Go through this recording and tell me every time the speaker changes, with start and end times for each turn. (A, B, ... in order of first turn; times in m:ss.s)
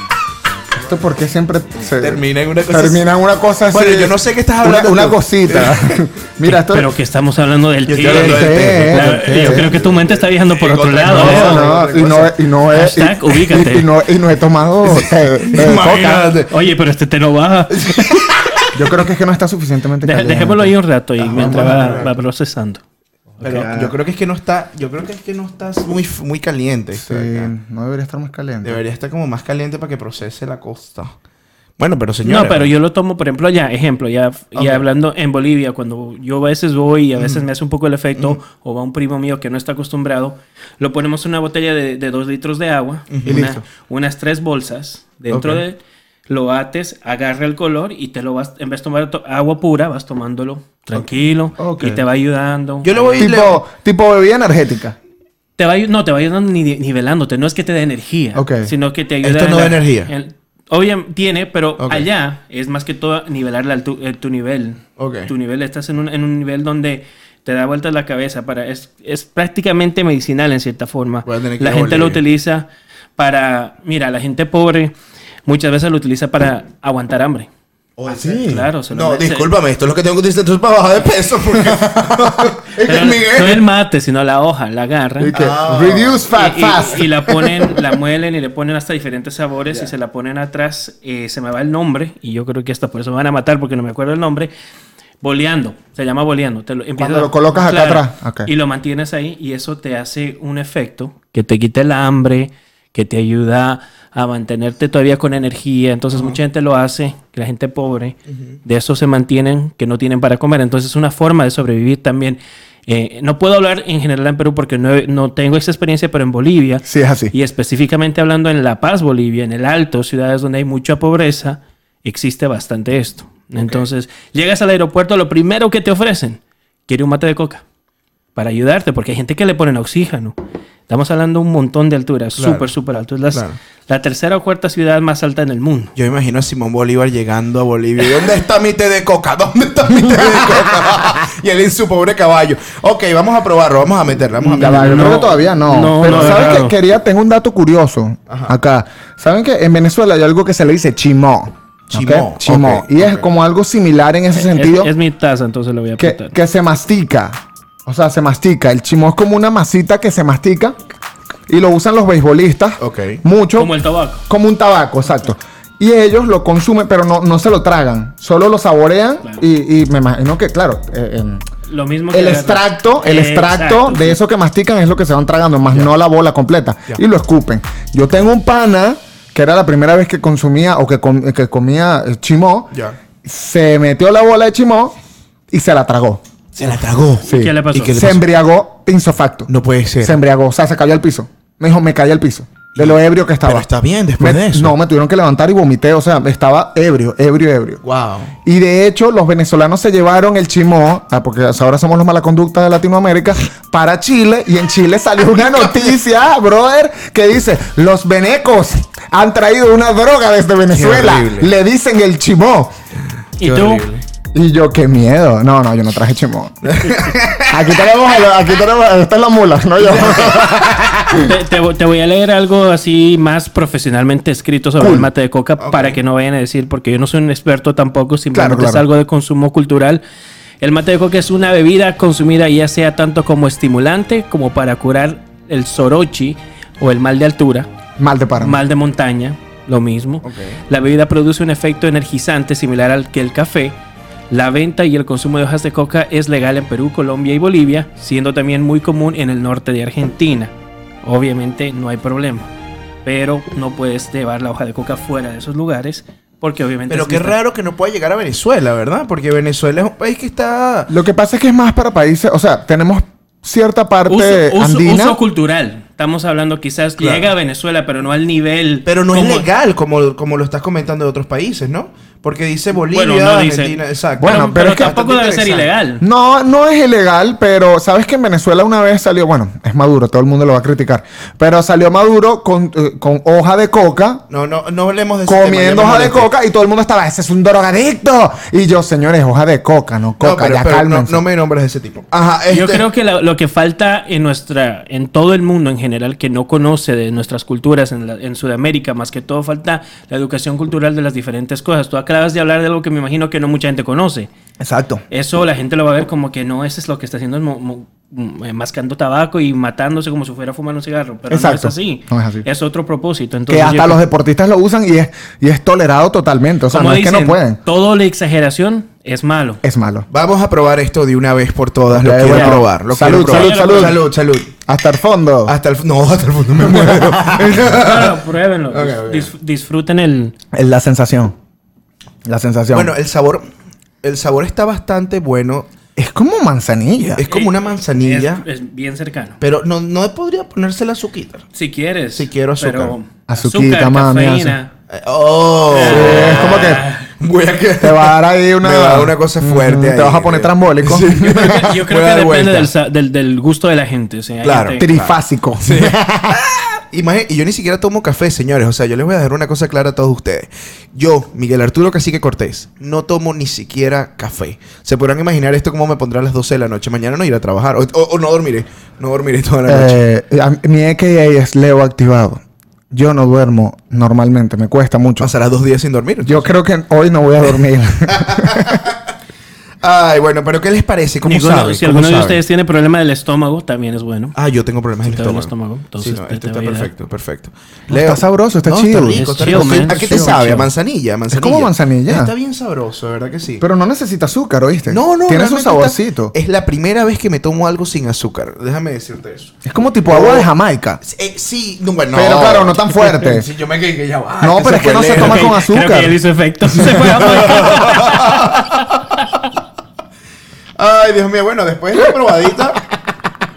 0:00.8-0:06.9 A
0:02.0-0:03.0 B
0:03.7-0:06.1 B
0:06.5-0:11.7 C
0:07.9-0:12.3 B
0:08.0-0:09.8 A
0:11.0-0:16.3 A
0:12.7-0:13.9 C
0:14.8-0:16.5 B
0:16.5-0:18.3 C
0:17.8-0:18.7 B
0:18.7-0:20.8 A
0:20.0-0:22.8 C
0:21.2-0:22.1 B
0:21.4-0:22.1 A
0:23.4-0:23.9 A
0:23.4-0:23.7 C
0:23.4-0:27.5 B
0:27.0-0:28.8 A
0:28.6-0:31.1 B
0:31.8-0:32.7 B
0:32.2-0:53.4 C
0:34.6-0:34.8 B
0:37.2-0:37.4 B
0:43.1-0:43.6 B
0:45.3-0:45.6 B
0:51.6-0:52.0 A
0:52.8-0:53.6 B
0:53.2-0:55.0 A
0:55.6-1:15.0 C
0:58.4-0:58.7 A
0:59.2-1:00.1 B
1:01.8-1:02.1 B
1:05.0-1:05.3 B
1:11.3-1:12.2 B
1:15.5-1:17.5 C
1:18.0-1:23.7 B
1:18.2-1:18.7 A
1:18.2-1:19.5 C
1:21.6-1:22.5 A
1:22.8-1:25.4 C
1:25.2-1:27.1 A
1:25.3-1:26.3 B
1:26.3-1:34.5 C
1:35.2-2:07.6 C
1:37.0-1:38.5 A
1:56.8-1:57.3 A
2:08.4-2:10.4 C
2:10.9-2:15.9 C
2:12.4-2:12.7 B
2:13.3-2:13.6 B
2:16.0-2:25.3 B
2:20.0-2:21.1 A
2:24.5-2:26.8 C
2:24.6-2:34.9 A
2:26.0-2:26.6 B
2:28.3-2:28.5 B
2:31.9-2:33.3 B
2:34.4-2:36.4 C
2:36.0-2:40.8 A
2:41.5-2:43.7 A
2:42.8-2:43.2 B
2:43.6-2:44.3 C
2:44.3-2:51.4 A
2:51.7-2:54.2 C
2:52.1-3:05.0 A
3:05.5-3:06.2 A
3:06.6-3:08.2 B
3:07.2-3:09.5 A
3:07.3-3:08.0 C
3:09.5-3:10.2 B
3:10.0-3:13.7 A
3:12.8-3:14.8 B
3:14.2-3:17.8 A
3:17.8-3:18.3 B
3:18.4-3:32.7 A
3:25.5-3:25.8 B
3:30.7-3:31.5 B
3:33.4-3:33.9 C
3:33.4-3:34.0 B
3:34.3-3:36.7 A
3:36.6-3:37.6 B
3:37.4-3:41.3 A
3:39.8-3:40.6 B
3:41.1-3:50.0 C
3:44.8-3:45.1 A
3:45.6-3:46.0 B
3:48.3-3:48.9 A
3:50.6-3:57.7 C
3:58.0-3:58.6 A
3:58.4-4:03.8 C
4:00.2-4:00.6 B
4:04.3-4:10.5 C
4:11.0-4:12.5 C
4:13.0-4:17.4 C
4:16.9-4:20.9 B
4:20.9-4:25.2 A
4:24.1-4:29.5 C
4:27.0-4:27.3 B
4:28.9-4:35.7 B
4:32.9-4:36.0 C
4:34.2-4:34.9 A
4:36.0-4:44.2 A
4:44.3-4:46.3 B
4:45.3-4:51.2 A
4:50.2-4:52.8 B
4:52.5-5:04.3 C
5:04.6-5:05.0 A
5:05.1-5:14.0 C
5:11.3-5:12.4 A
5:13.5-5:17.6 A
5:16.7-5:19.6 C
5:19.6-5:20.1 A
5:20.1-5:24.5 B
5:21.9-5:24.0 A
5:22.3-5:24.0 C
5:24.7-5:25.6 A
5:25.5-5:28.2 B
5:26.7-5:27.6 A
5:27.7-5:30.4 C
5:28.7-5:29.3 B
5:30.5-5:31.4 A
5:32.3-5:32.9 A
5:32.7-5:33.5 B
5:34.0-5:35.7 B
5:36.0-5:37.2 A
5:37.2-5:38.4 B
5:37.3-5:39.4 C
5:39.4-5:41.5 B
5:41.6-5:44.7 C
5:42.2-5:43.0 B
5:43.3-5:44.6 A
5:44.9-5:52.7 B
5:45.7-5:47.1 C
5:45.9-5:46.8 A
5:47.8-5:51.7 A
5:51.3-5:54.9 C
5:54.4-6:10.0 B
5:54.8-5:56.4 A
6:09.7-6:12.4 A
6:12.9-6:15.3 A
6:15.2-6:16.5 B
6:16.2-6:18.8 A
6:18.1-6:18.9 B
6:19.8-6:22.4 B
6:21.2-6:24.4 C
6:24.4-6:33.6 B
6:25.0-6:26.9 C
6:27.9-6:30.6 A
6:29.1-6:30.6 C
6:31.3-6:32.3 A
6:33.6-6:36.3 A
6:34.9-6:39.6 B
6:39.6-6:41.0 A
6:40.1-6:40.5 B
6:41.0-6:45.6 B
6:42.1-6:43.5 A
6:44.4-6:46.2 A
6:45.2-6:49.3 C
6:46.9-6:48.6 B
6:47.3-6:48.0 A
6:50.8-6:52.8 B